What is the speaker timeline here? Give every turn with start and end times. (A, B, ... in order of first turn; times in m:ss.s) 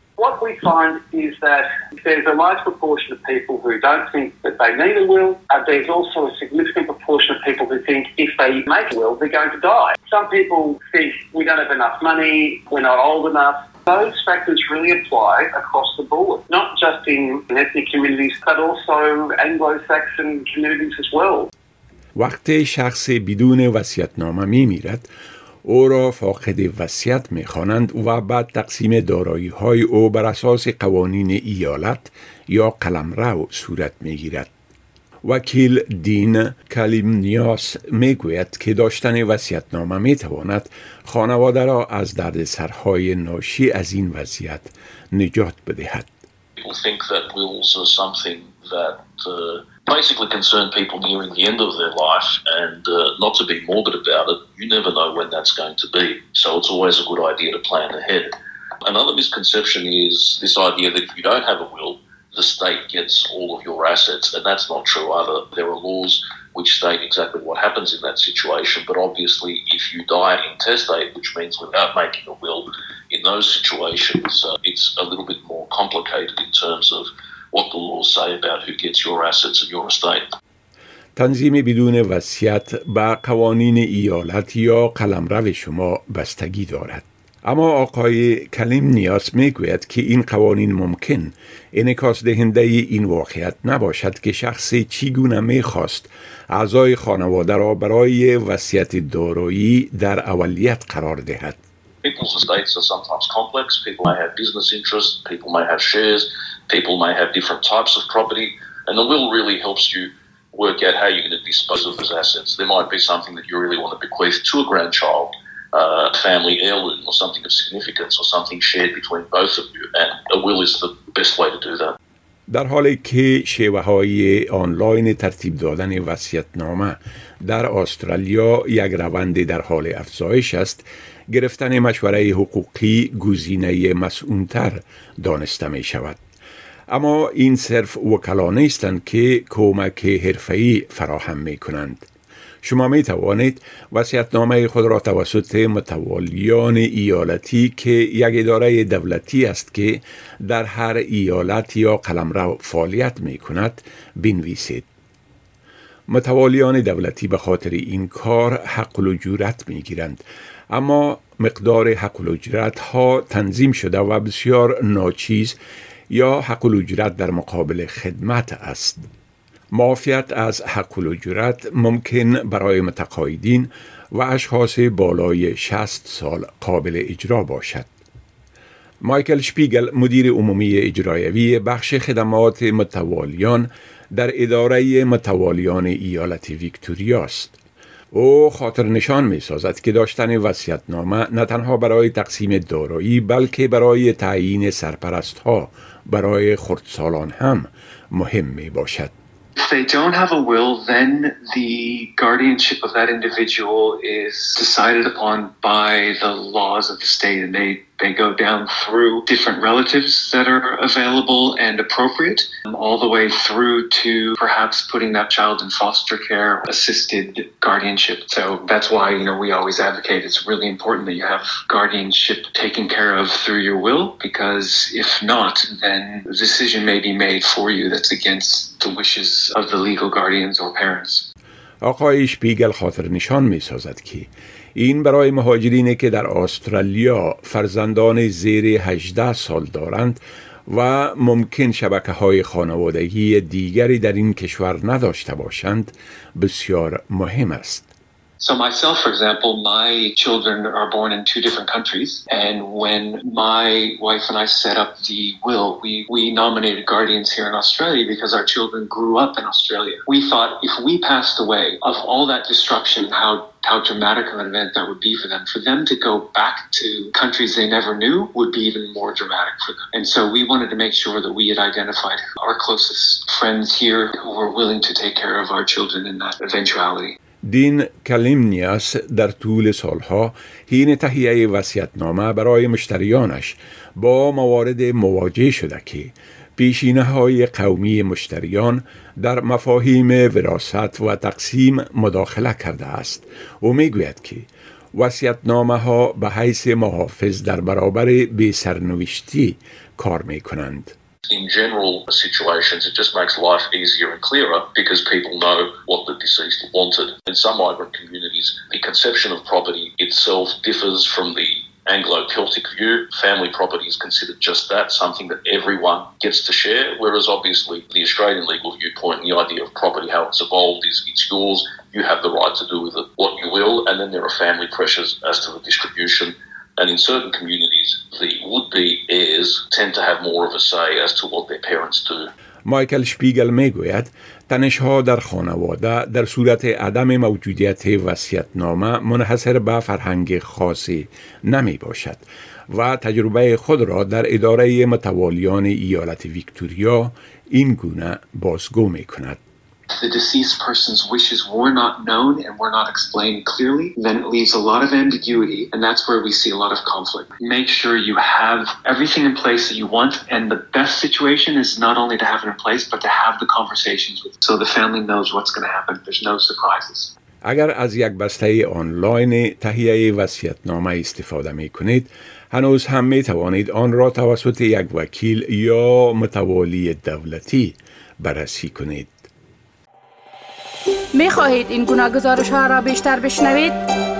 0:00.2-0:21.5 A
0:22.2-0:25.1 B
0:25.6-0:34.5 B
0:35.2-0:46.1 B
0:46.6-0:58.3 C
0:58.8-1:20.2 C
1:21.2-1:41.6 B
1:42.0-2:02.0 C
2:02.5-2:16.2 B
2:16.9-2:22.1 B
2:22.6-2:34.9 B
2:36.1-2:45.6 B
2:46.1-2:49.0 B
2:49.7-2:57.9 B
2:59.0-3:07.6 B
3:08.1-3:19.1 B
3:19.6-3:51.3 D
3:51.8-4:07.9 B
4:08.4-4:37.2 D
4:37.4-5:00.9 B
5:01.3-5:32.3 C
5:32.6-5:49.4 B
5:49.9-6:07.1 D
6:07.4-6:19.3 B
6:21.1-6:23.8 E